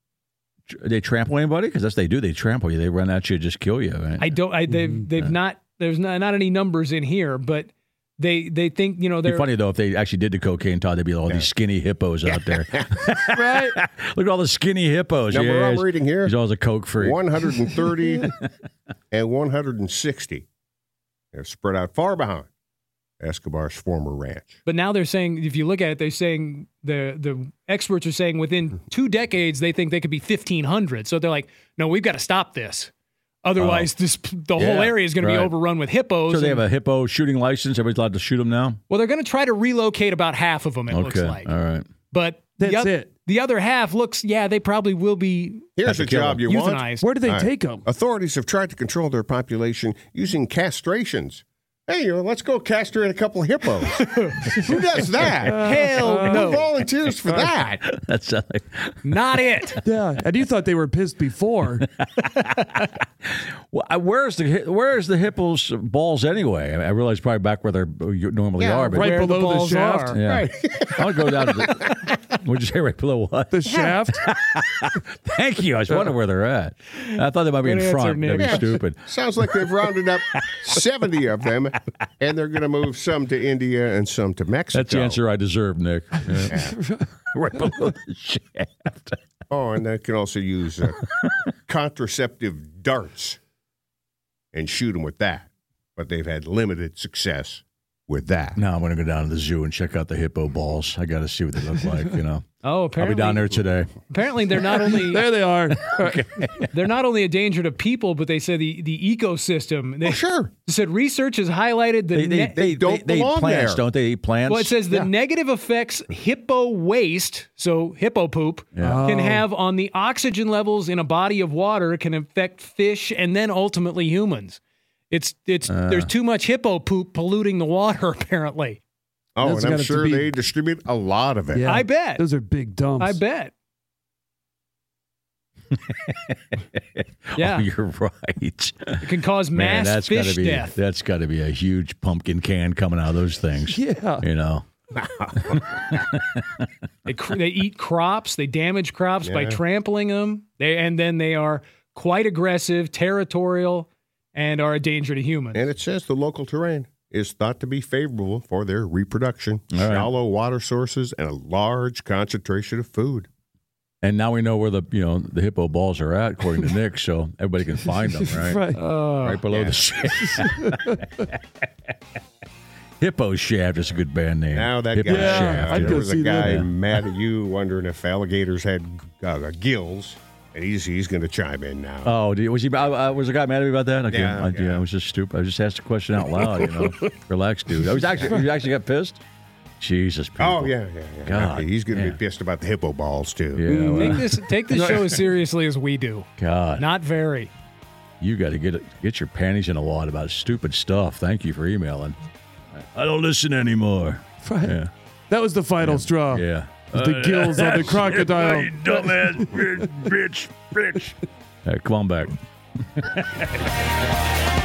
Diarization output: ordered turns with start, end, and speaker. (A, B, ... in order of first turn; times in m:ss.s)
0:00.7-0:04.4 A
0:04.2-0:09.5 B
0:09.2-0:17.8 A
0:12.3-0:12.6 C
0:13.3-0:13.8 D
0:15.3-0:16.4 C
0:17.0-0:18.3 C
0:19.1-0:20.4 C
0:21.3-0:22.5 C
0:23.2-0:24.6 C
0:24.6-0:32.9 B
0:33.4-0:36.6 B
0:33.6-0:33.9 A
0:34.5-0:35.5 A
0:36.3-0:38.8 A
0:38.9-0:41.5 B
0:40.9-0:41.9 A
0:42.1-0:45.7 B
0:42.6-0:43.1 D
0:45.8-0:57.8 C
0:45.8-0:46.4 A
0:46.4-0:47.0 B
0:47.0-0:47.8 D
0:54.0-0:54.7 B
0:55.4-0:56.6 D
0:55.5-0:56.6 B
0:57.8-0:59.2 A
0:59.0-0:59.8 B
0:59.8-1:01.8 D
1:01.8-1:02.7 A
1:03.2-1:09.1 A
1:08.6-1:08.9 C
1:08.9-1:10.2 D
1:09.0-1:10.2 B
1:10.1-1:19.6 A
1:10.2-1:12.1 C
1:13.5-1:14.2 D
1:13.7-1:14.0 C
1:17.6-1:18.6 B
1:18.4-1:25.2 C
1:20.3-1:20.6 A
1:24.7-1:26.6 A
1:26.5-1:26.8 C
1:26.5-1:27.1 D
1:27.3-1:29.2 A
1:29.5-1:31.0 C
1:31.7-1:33.4 C
1:34.5-1:38.6 C
1:38.6-1:42.4 A
1:42.6-1:43.6 B
1:43.0-1:44.0 A
1:44.1-1:45.3 B
1:44.7-1:46.6 D
1:45.7-1:46.7 A
1:46.7-1:52.6 B
1:50.0-1:50.5 C
1:52.1-1:54.8 A
1:52.6-1:53.8 C
1:54.5-2:04.6 B
1:58.7-1:59.0 A
1:58.8-1:59.4 D
2:05.1-2:08.8 B
2:05.7-2:06.1 A
2:09.4-2:11.7 C
2:09.4-2:10.3 D
2:11.5-2:13.2 D
2:11.7-2:12.2 B
2:13.0-2:13.5 B
2:15.9-2:24.6 A
2:17.4-2:17.6 B
2:19.0-2:20.7 B
2:23.7-2:24.2 D
2:25.0-2:25.6 C
2:25.4-2:26.7 A
2:27.0-2:35.6 B
2:29.2-2:29.6 C
2:35.5-2:43.3 C
2:39.7-2:40.1 A
2:44.0-2:51.3 A
2:48.0-2:49.2 D
2:49.5-2:49.9 C
2:50.2-2:51.0 D
2:53.0-2:56.7 A
2:54.5-3:02.1 C
2:55.0-2:56.6 D
3:02.0-3:09.2 A
3:04.1-3:04.8 C
3:06.4-3:07.0 C
3:09.8-3:10.7 A
3:10.4-3:13.6 C
3:11.2-3:12.2 A
3:13.6-3:14.9 A
3:13.7-3:15.2 D
3:13.9-3:17.5 B
3:16.4-3:16.9 A
3:18.2-3:22.2 A
3:22.7-3:24.9 A
3:24.4-3:24.8 D
3:25.3-3:30.1 D
3:25.8-3:32.4 A
3:32.9-3:33.7 A